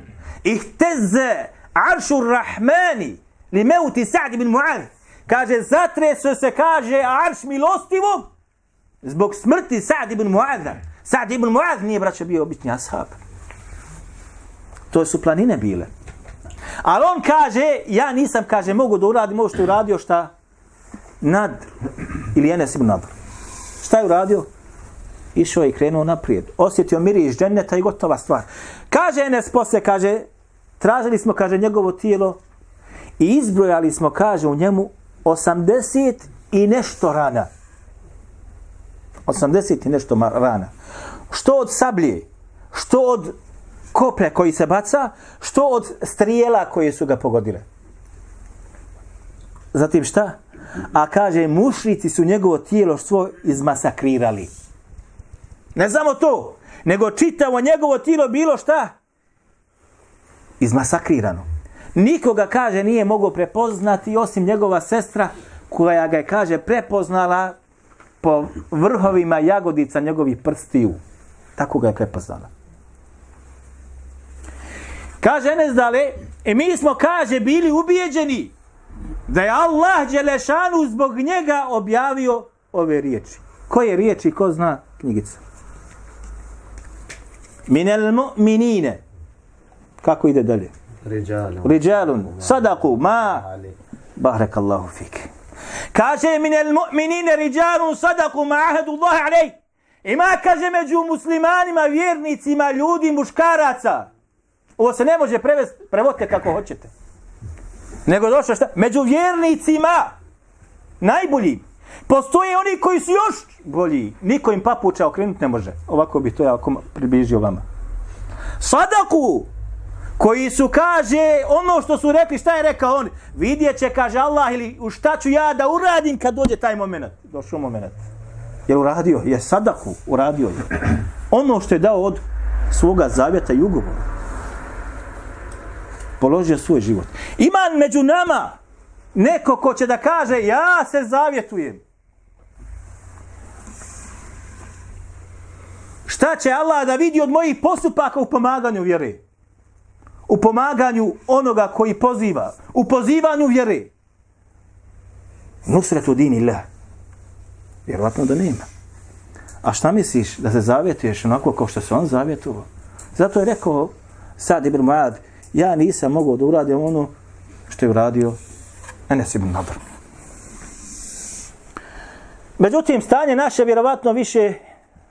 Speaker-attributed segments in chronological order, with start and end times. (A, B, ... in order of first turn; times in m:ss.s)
0:00.4-0:08.3 A
0:09.0-0:13.1 A
0:14.9-0:15.9 A
0:16.8-0:20.3 A
0:21.2-0:21.7 A
0:22.3-0:23.1 A
0:23.8-0:24.5 A
0:25.3-0:30.3 A
0:30.8-0:32.4 A
0:33.2-0:37.5 A
0:39.3-0:40.7 A
0:41.3-0:43.4 A
0:43.9-0:47.6 A
0:49.7-0:50.4 A
0:50.9-0:54.5 A
0:55.8-0:58.9 A
1:00.6-1:07.5 A
1:08.2-1:11.0 A
1:11.6-1:12.5 A
1:15.2-1:18.5 A
1:19.3-1:25.4 A
1:27.7-1:29.0 A
1:30.0-1:30.7 A
1:31.3-1:35.3 A
1:35.9-1:44.1 A
1:44.8-1:46.9 A
1:48.0-1:50.1 A
1:51.0-1:57.6 A
1:58.6-1:59.5 A
2:00.2-2:08.0 A
2:08.7-2:14.0 A
2:16.2-2:18.6 A
2:19.1-2:21.8 A
2:26.1-2:29.2 A
2:30.3-2:33.9 A
2:35.6-2:36.6 A
2:37.9-2:38.6 A
2:39.6-2:47.1 A
2:47.7-2:48.4 A
2:49.1-2:49.8 A
2:52.6-2:54.6 A